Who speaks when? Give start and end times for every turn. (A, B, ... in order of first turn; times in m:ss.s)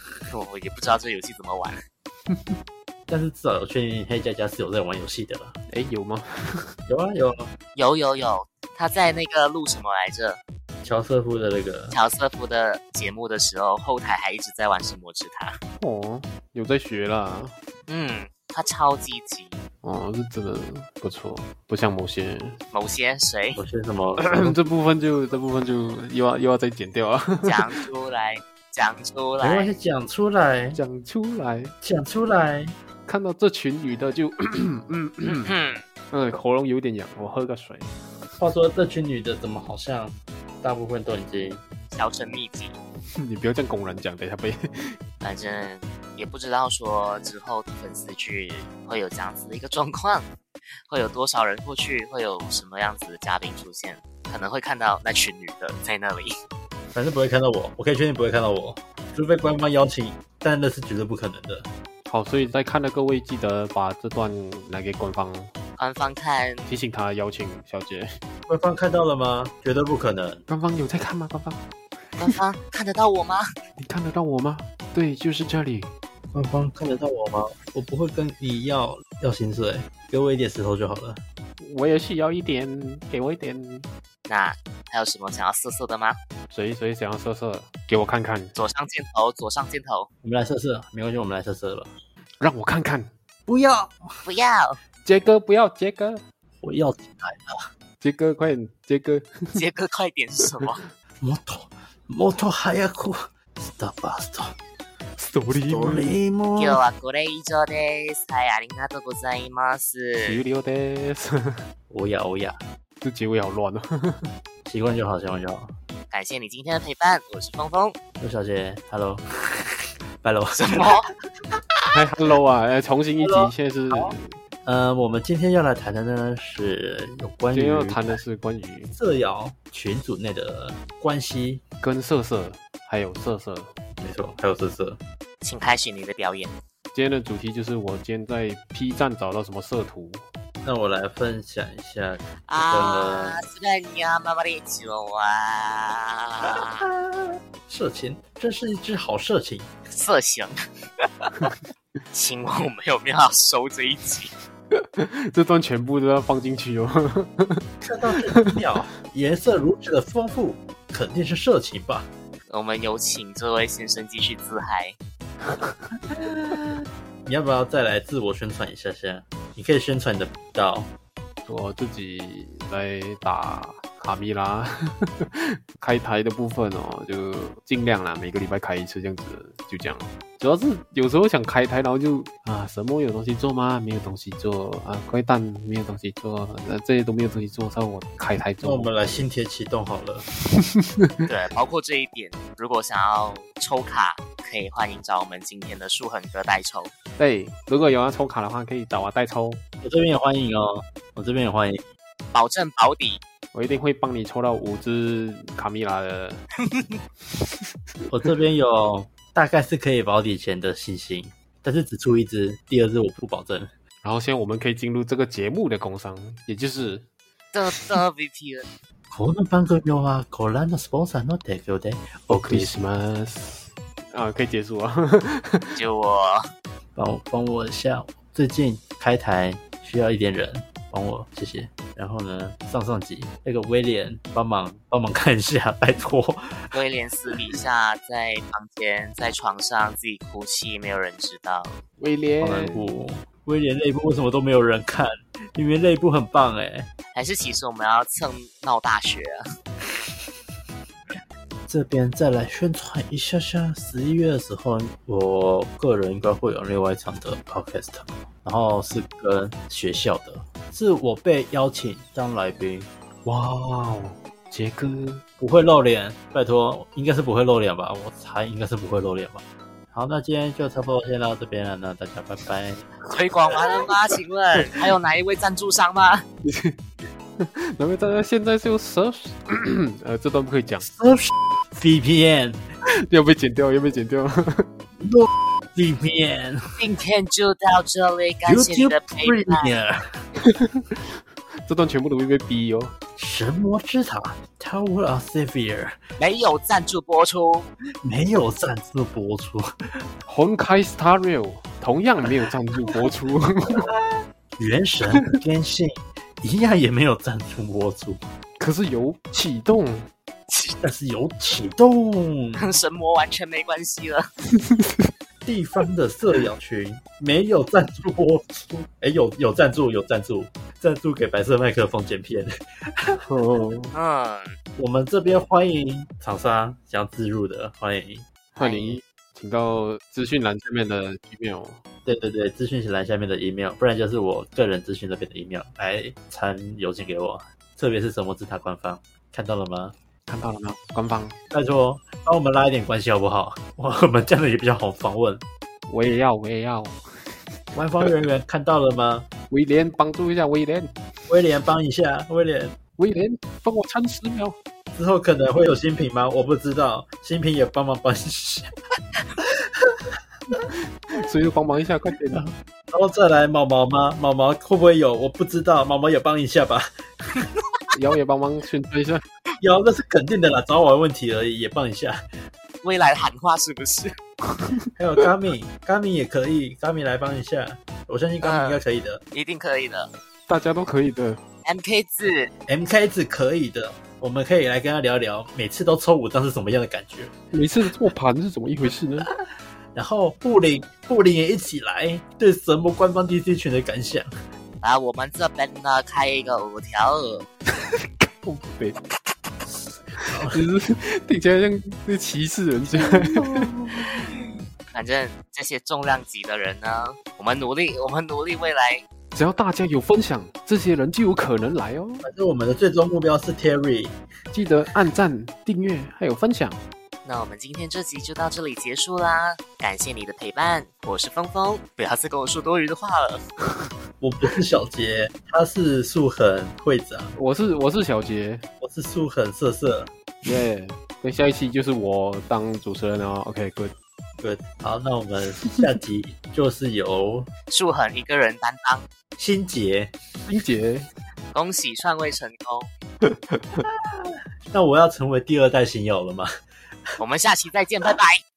0:00.3-0:01.8 A
0:03.1-0:05.6 B
0:05.7-0:06.8 C
0:06.9-0:07.5 B
0:07.8-0:10.4 A
0:10.8-0:12.0 B
0:11.9-0:15.6 A
0:15.8-0:17.6 C
0:17.9-0:19.6 A
0:19.8-0:22.6 C
0:22.7-0:23.6 A
0:23.6-0:24.6 B
0:24.2-0:27.8 C
0:27.4-0:29.8 A
0:29.4-0:30.8 B
0:30.7-0:31.7 C
0:31.8-0:32.7 B
0:33.1-0:35.6 C
0:35.2-0:35.8 A
0:36.1-0:38.0 C
0:38.4-0:41.6 B
0:41.9-0:42.8 A
0:43.2-0:45.0 C
0:45.2-0:50.3 A
0:50.9-0:56.4 A
0:56.9-1:01.7 B
1:02.1-1:05.5 C
1:05.8-1:06.7 A
1:06.7-1:08.2 C
1:08.5-1:10.4 B
1:10.5-1:11.6 C
1:12.2-1:13.5 A
1:13.8-1:15.9 C
1:16.3-1:21.2 B
1:21.6-1:23.9 C
1:24.3-1:26.2 A
1:26.5-1:28.6 C
1:28.6-1:30.1 A
1:30.2-1:31.9 B
1:32.4-1:33.1 C
1:33.5-1:34.2 B
1:34.2-1:34.8 A
1:35.0-1:36.2 C
1:36.6-1:37.7 B
1:38.0-1:39.6 C
1:39.6-1:40.8 A
1:41.2-1:44.6 B
1:45.2-1:46.2 C
1:45.5-1:46.8 B
1:46.6-1:50.4 A
1:50.2-1:51.6 C
1:51.9-1:52.6 B
1:53.0-1:54.3 C
1:54.7-1:55.7 B
1:56.1-1:58.0 A
1:58.2-2:01.0 B
2:00.6-2:01.1 A
2:01.9-2:04.4 C
2:03.2-2:04.1 B
2:04.6-2:08.2 B
2:07.5-2:09.0 C
2:08.9-2:11.6 B
2:11.8-2:13.7 C
2:14.0-2:15.0 B
2:15.4-2:16.6 A
2:16.9-2:20.2 C
2:20.6-2:23.4 B
2:22.5-2:26.9 A
2:26.5-2:29.7 B
2:29.9-2:31.5 A
2:32.1-2:34.3 A
2:34.7-2:38.4 C
2:37.8-2:42.1 B
2:42.5-2:45.0 A
2:46.1-2:50.9 B
2:51.5-3:09.2 C
3:08.6-3:10.3 B
3:10.5-3:11.3 C
3:11.3-3:16.9 A
3:17.2-3:19.6 C
3:19.8-3:21.8 B
3:22.3-3:23.2 A
3:23.5-3:26.4 C
3:28.1-3:33.7 B
3:34.0-3:37.1 C
3:37.5-3:38.7 A
3:39.1-3:42.8 B
3:42.3-3:45.8 C
3:45.8-3:46.4 A
3:47.0-3:56.8 B
3:56.7-4:01.8 A
4:02.0-4:02.9 C
4:02.4-4:06.9 B
4:07.1-4:09.4 A
4:11.7-4:22.9 B
4:23.2-4:25.2 C
4:25.4-4:32.9 B
4:33.1-4:36.2 A
4:36.4-4:36.8 C
4:37.4-4:40.9 C
4:40.8-4:42.6 B
4:43.0-4:44.7 C
4:45.0-4:46.8 B
4:46.8-4:49.8 A
4:48.5-4:50.2 B
4:50.4-4:52.9 C
4:53.2-4:56.0 B
4:56.2-4:57.7 A
4:58.0-5:00.0 B
5:00.3-5:03.9 C
5:03.8-5:08.2 B
5:08.6-5:10.1 C
5:10.8-5:12.6 B
5:12.6-5:14.3 A
5:14.6-5:15.1 C
5:15.4-5:23.2 B
5:23.3-5:23.9 C
5:23.9-5:24.6 A
5:24.8-5:28.3 B
5:28.6-5:29.0 A
5:28.6-5:31.8 C
5:32.0-5:40.0 B
5:40.3-5:41.4 C
5:41.5-5:45.4 B
5:45.9-5:48.1 C
5:47.7-5:49.3 B
5:49.5-5:51.0 C
5:51.3-5:52.8 B
5:53.0-5:54.6 C
5:54.9-5:58.7 B
5:59.4-6:00.7 B
6:01.1-6:02.4 C
6:02.3-6:07.5 B
6:07.9-6:09.2 C
6:09.6-6:12.2 B
6:12.8-6:14.2 A
6:15.0-6:19.2 B
6:18.4-6:18.8 A
6:19.3-6:20.1 A
6:20.5-6:21.4 C
6:21.6-6:22.5 A
6:22.7-6:27.3 B
6:27.5-6:29.3 C
6:30.0-6:34.4 B
6:34.8-6:37.5 A
6:37.9-6:39.0 C
6:40.1-6:40.6 B
6:40.5-6:43.7 C
6:42.9-6:44.4 B
6:44.9-6:49.0 A
6:49.3-6:52.3 C
6:52.2-6:54.2 B
6:54.5-6:56.8 C
6:57.2-7:03.4 A
7:04.2-7:07.4 B
7:07.4-7:08.6 C
7:08.8-7:10.1 B
7:10.4-7:13.9 C
7:14.4-7:17.5 B
7:17.7-7:19.1 A
7:19.4-7:20.2 B
7:20.5-7:21.1 C
7:21.5-7:22.9 A
7:23.2-7:23.9 C
7:23.9-7:26.5 B
7:27.2-7:28.4 A